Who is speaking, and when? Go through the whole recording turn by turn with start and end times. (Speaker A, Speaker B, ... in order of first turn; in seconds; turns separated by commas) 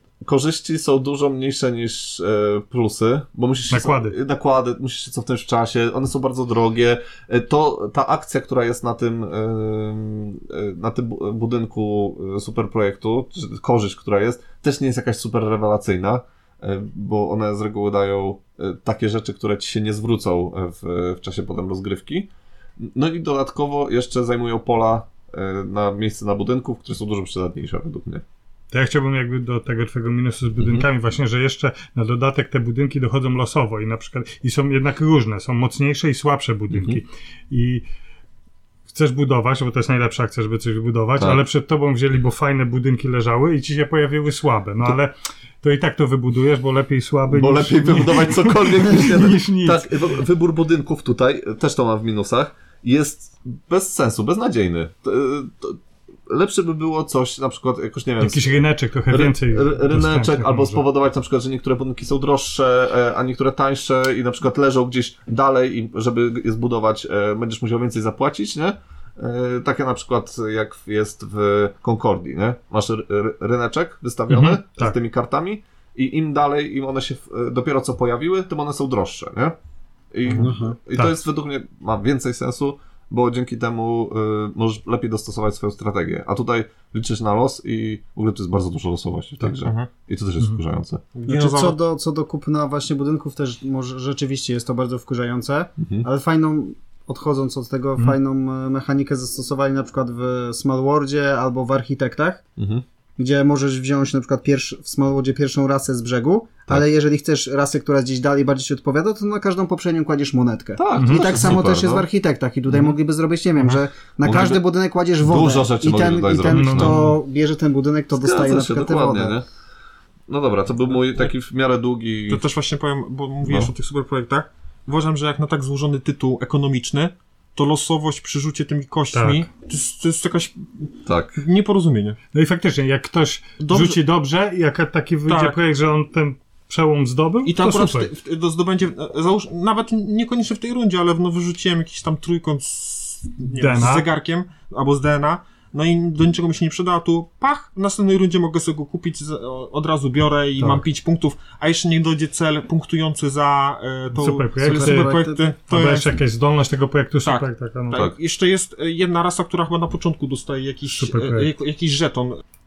Speaker A: 0.2-28.2, Speaker B: 3.7-4.1, Speaker B: 28.7-37.8, Speaker A: 30.6-30.9, Speaker A: 36.7-37.0, Speaker B: 38.9-50.0, Speaker A: 41.2-41.4, Speaker A: 47.3-79.5, Speaker B: 58.2-60.8, Speaker B: 74.3-75.0, Speaker A: 80.1-91.0, Speaker C: 80.3-80.5, Speaker D: 80.3-80.8, Speaker C: 89.6-89.9, Speaker C: 91.1-91.8, Speaker D: 91.3-102.4, Speaker A: 95.8-96.1, Speaker A: 102.6-102.8, Speaker D: 103.2-119.3, Speaker A: 110.8-112.1, Speaker B: 111.0-111.4, Speaker A: 114.2-114.6, Speaker A: 115.2-117.1, Speaker B: 116.5-117.2, Speaker A: 118.1-119.5, Speaker A: 120.3-122.4, Speaker C: 122.3-132.2, Speaker A: 123.4-123.7, Speaker B: 129.1-129.5, Speaker A: 131.0-131.4, Speaker B: 132.3-138.1, Speaker C: 133.6-134.0, Speaker C: 135.3-135.6, Speaker C: 137.4-156.2, Speaker B: 143.5-144.1, Speaker B: 154.1-158.1, Speaker D: 154.6-155.5, Speaker C: 157.2-162.4, Speaker B: 161.0-161.5